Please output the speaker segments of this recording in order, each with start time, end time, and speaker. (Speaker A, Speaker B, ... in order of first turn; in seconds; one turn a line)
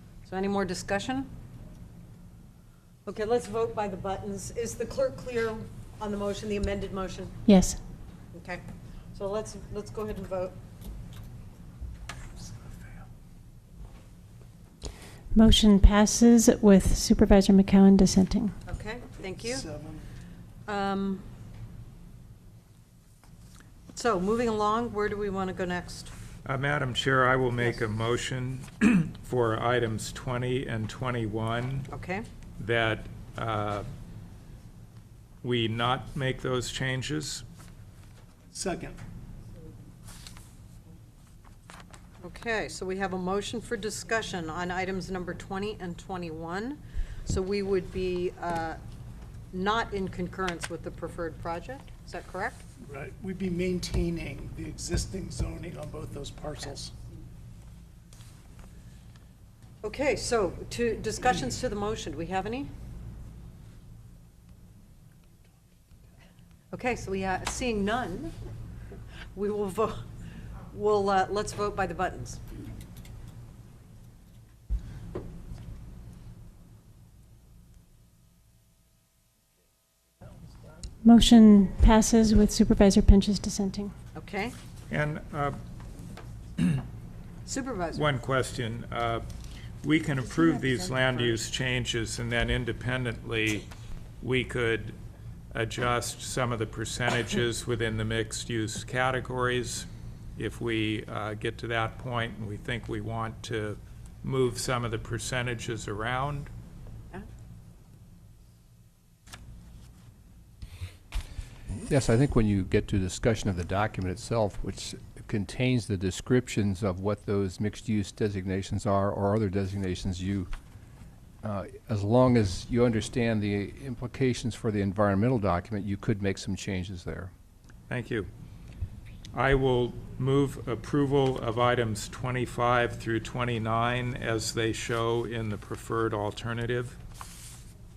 Speaker A: 0.3-1.3
Speaker A: 3.1-7.4
Speaker B: 7.5-7.8
Speaker A: 8.3-8.6
Speaker A: 9.1-10.6
Speaker B: 15.3-18.6
Speaker A: 18.7-19.6
Speaker C: 19.4-20.1
Speaker A: 20.7-21.3
Speaker A: 23.9-26.1
Speaker D: 26.4-31.9
Speaker A: 31.9-32.2
Speaker D: 32.6-33.9
Speaker D: 35.4-37.5
Speaker C: 38.5-39.0
Speaker A: 42.2-48.8
Speaker A: 49.5-52.6
Speaker C: 52.8-56.9
Speaker A: 59.8-62.7
Speaker A: 66.7-68.3
Speaker A: 69.3-70.1
Speaker A: 70.7-72.4
Speaker B: 81.0-83.9
Speaker A: 84.2-84.5
Speaker D: 84.9-85.6
Speaker A: 87.5-88.0
Speaker D: 87.9-89.2
Speaker D: 89.8-93.7
Speaker D: 94.2-95.0
Speaker D: 95.5-106.5
Speaker E: 111.8-120.5
Speaker E: 121.4-127.3
Speaker D: 127.9-128.3
Speaker D: 129.3-137.0